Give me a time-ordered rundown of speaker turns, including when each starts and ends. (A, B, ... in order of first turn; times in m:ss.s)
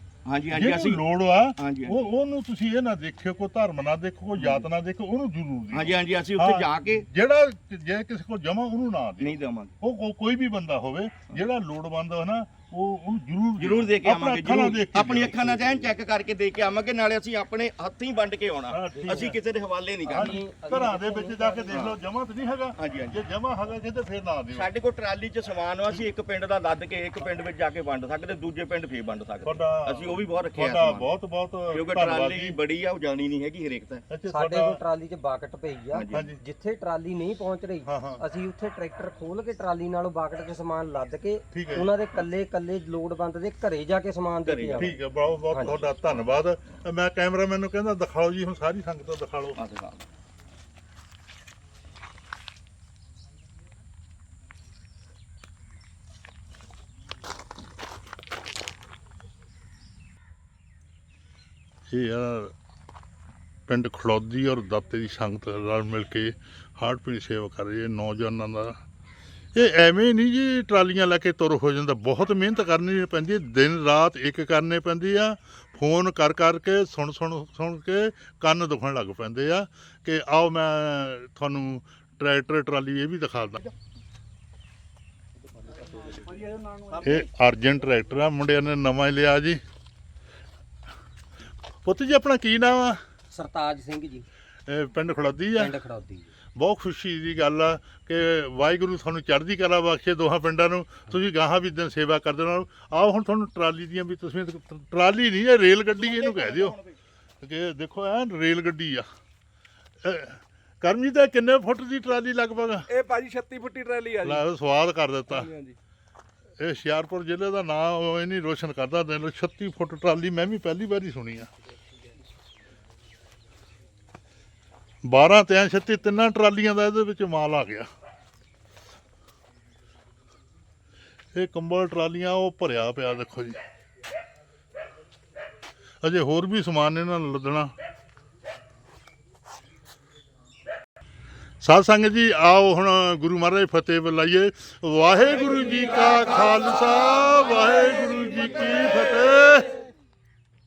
0:00.2-0:01.0 A
0:00.5-0:15.6 B
0:01.6-0:02.0 A
0:04.4-0:04.7 A
0:05.7-0:07.1 A
0:09.2-0:09.8 A
0:13.6-0:20.4 A
0:18.7-0:19.4 B
0:18.9-0:19.3 C
0:20.0-0:21.7 C
0:20.1-0:24.7 B
0:21.7-0:22.0 A
0:22.8-0:23.2 A
0:24.5-0:31.1 A
0:29.4-0:32.6 B
0:31.7-0:34.1 A
0:34.1-0:34.8 B
0:34.3-0:44.9 C
0:35.9-0:36.3 A
0:36.1-0:36.4 B
0:37.8-0:38.2 B
0:41.5-0:41.9 B
0:44.4-0:44.9 A
0:44.8-0:49.6 B
0:45.5-0:45.8 C
0:45.6-0:46.1 A
0:49.6-0:50.0 A
1:01.9-1:02.5 B
1:03.7-1:08.8 B
1:09.5-1:23.6 B
1:27.0-1:29.6 B
1:31.8-1:33.0 B
1:33.3-1:34.3 C
1:34.7-1:35.8 B
1:35.6-1:36.3 C
1:36.5-1:46.8 B
1:46.0-1:47.0 A
1:47.4-1:49.1 B
1:50.0-1:52.9 B
1:52.9-1:54.4 D
1:54.2-1:55.5 B
1:55.3-1:55.8 D
1:56.6-2:01.5 B
2:05.0-2:07.9 B
2:11.3-2:13.6 B
2:16.0-2:17.7 B
2:21.6-2:29.8 B